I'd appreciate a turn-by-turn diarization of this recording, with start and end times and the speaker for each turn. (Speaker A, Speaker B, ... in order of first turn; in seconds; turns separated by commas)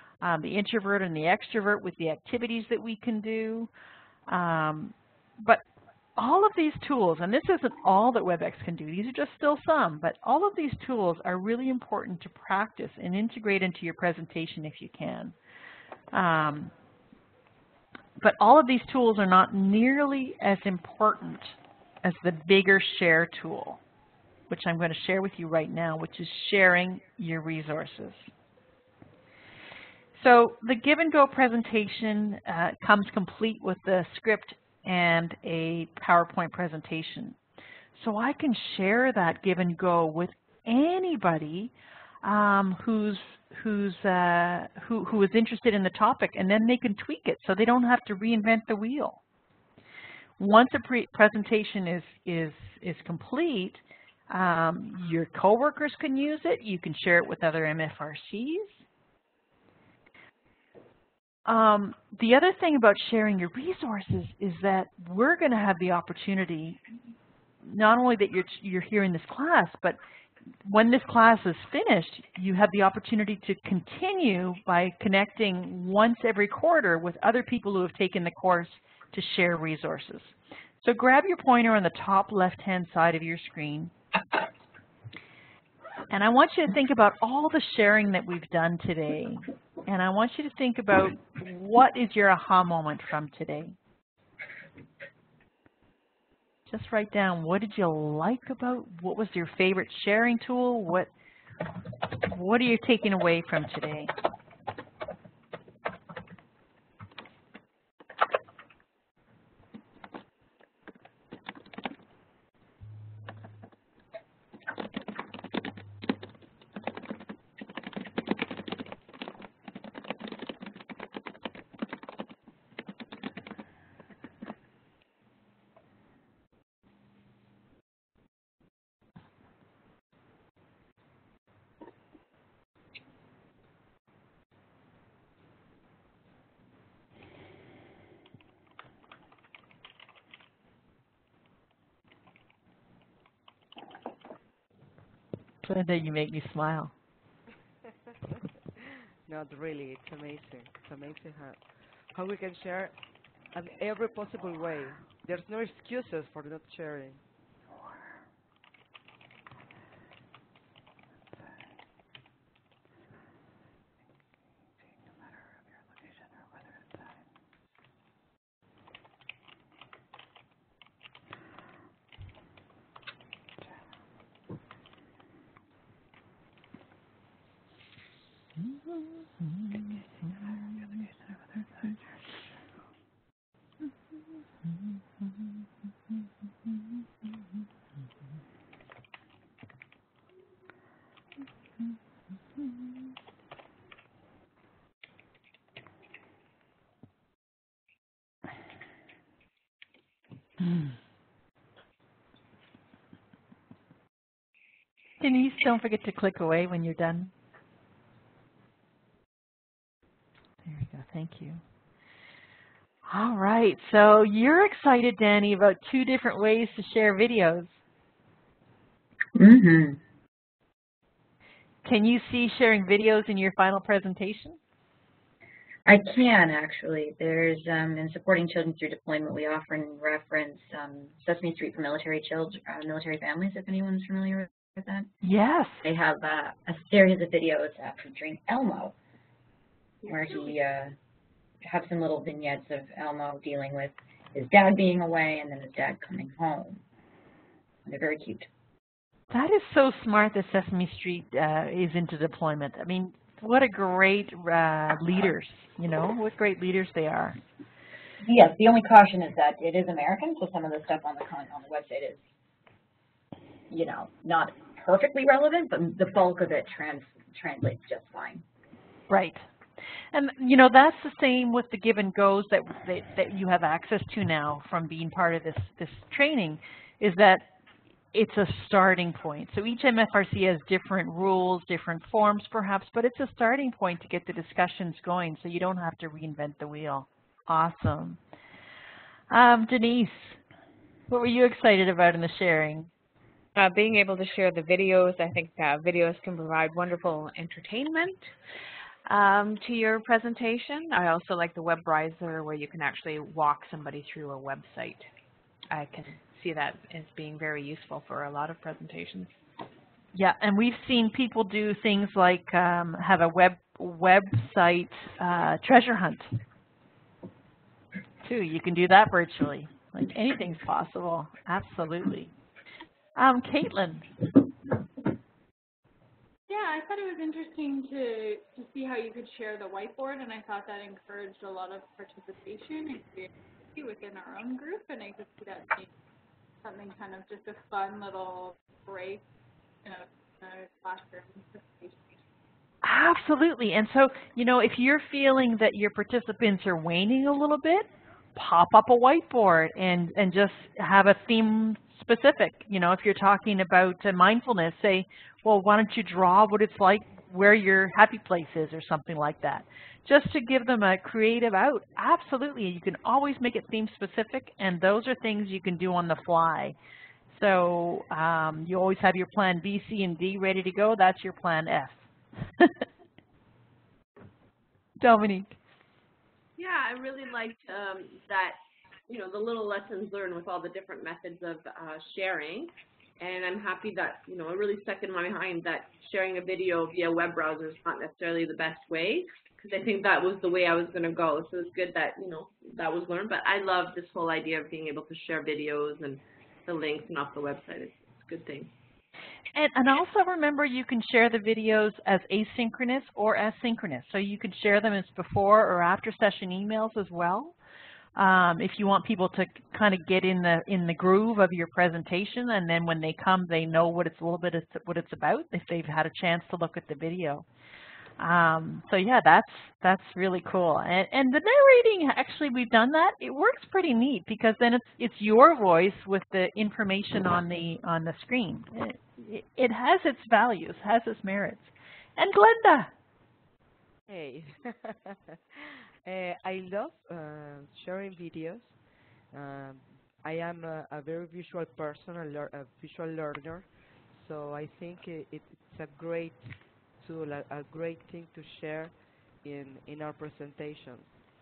Speaker A: 0.2-3.7, Speaker A: 4.3-5.6, Speaker A: 6.2-15.3, Speaker A: 16.1-16.7, Speaker A: 18.2-23.8, Speaker A: 24.5-28.3, Speaker A: 30.1-37.4, Speaker A: 38.0-41.7, Speaker A: 42.2-49.2, Speaker A: 50.4-58.9, Speaker A: 61.5-66.8, Speaker A: 67.6-70.0, Speaker A: 70.7-83.9, Speaker A: 86.1-93.8, Speaker A: 96.7-101.1, Speaker A: 102.3-104.1, Speaker A: 145.6-146.9, Speaker B: 149.3-153.0, Speaker B: 153.5-157.2, Speaker A: 178.6-182.2, Speaker A: 200.6-201.0, Speaker A: 205.2-207.3, Speaker A: 210.7-211.6, Speaker A: 213.1-217.8, Speaker C: 219.3-220.0, Speaker A: 221.8-224.6, Speaker C: 225.9-235.1, Speaker A: 235.2-235.9, Speaker C: 235.8-238.9, Speaker C: 240.0-241.0, Speaker C: 241.6-246.8, Speaker C: 247.9-248.5, Speaker A: 249.3-257.4, Speaker C: 258.3-262.3, Speaker C: 263.7-268.4, Speaker A: 269.1-269.5, Speaker A: 270.1-277.5, Speaker A: 278.1-288.2, Speaker A: 289.3-290.4, Speaker A: 291.1-292.9, Speaker D: 293.6-298.3, Speaker D: 299.1-305.1, Speaker D: 305.7-309.4, Speaker A: 310.1-316.3, Speaker A: 318.2-322.3, Speaker A: 323.2-324.1, Speaker E: 326.5-335.9, Speaker E: 336.6-339.2, Speaker E: 339.9-342.1, Speaker A: 342.8-366.8, Speaker A: 367.3-372.9, Speaker A: 375.0-375.6, Speaker F: 376.6-398.7, Speaker A: 399.5-407.6, Speaker A: 408.2-417.5, Speaker A: 418.2-432.9, Speaker B: 434.1-451.3